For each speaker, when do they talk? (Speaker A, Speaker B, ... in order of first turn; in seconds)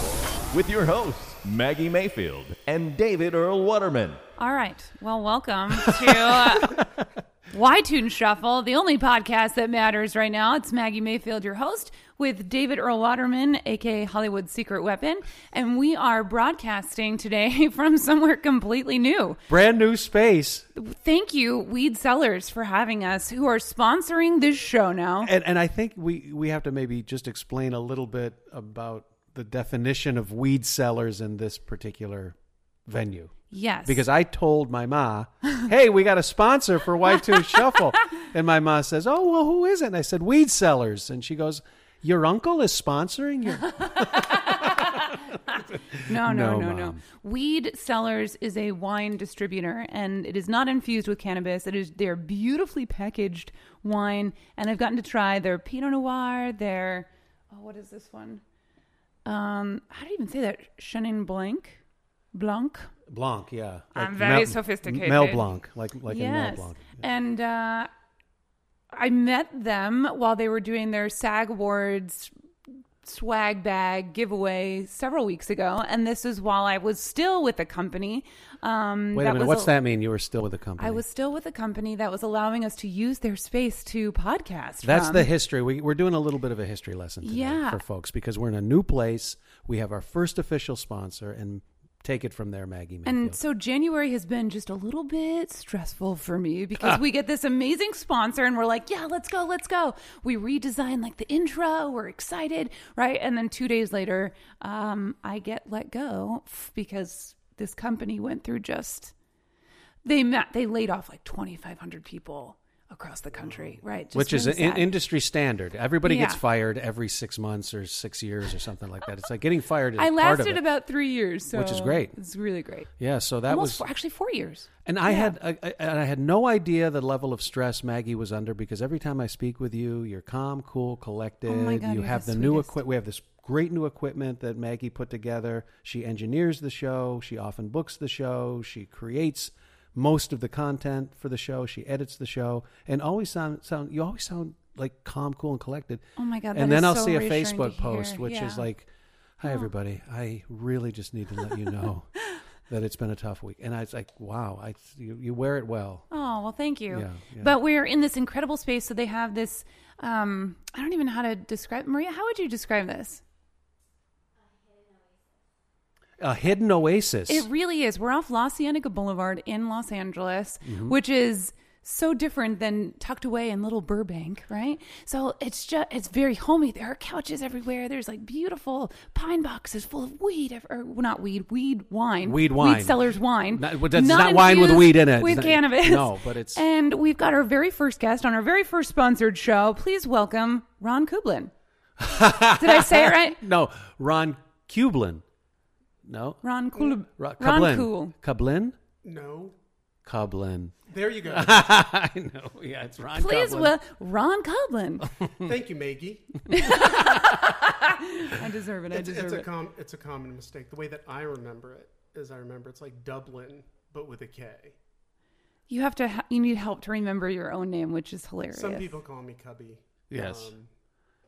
Speaker A: 0.5-4.2
Speaker B: 4.4-6.8, 7.5-19.4, 20.7-25.3, 33.5-34.0, 44.2-45.1, 46.0-58.4, 59.2-61.8, 62.3-62.9, 63.9-65.5, 66.1-67.9, 68.9-72.3, 73.0-79.7, 80.8-85.3, 87.2-87.8, 93.0-109.1, 110.0-114.9, 116.0-116.4, 120.0-122.9, 123.5-125.3, 131.4-132.8, 146.2-148.7, 156.1-163.2, 167.3-191.5, 192.5-193.4, 196.4-198.1, 203.1-205.1, 206.5-209.4, 215.7-218.9
Speaker C: 19.5-20.7, 25.2-47.0, 63.1-67.0, 79.1-81.0, 84.8-93.4, 114.1-120.6, 121.5-122.2, 123.0-123.8, 124.8-152.1, 152.7-156.1, 156.9-157.6, 166.2-167.5, 170.6-171.0, 182.2-186.6, 192.0-195.2, 196.0-196.4, 197.0-198.8, 200.0-203.7, 220.1-220.5
Speaker D: 113.3-113.8, 199.0-199.6, 200.9-201.8, 205.4-206.9, 208.9-214.8, 218.5-220.7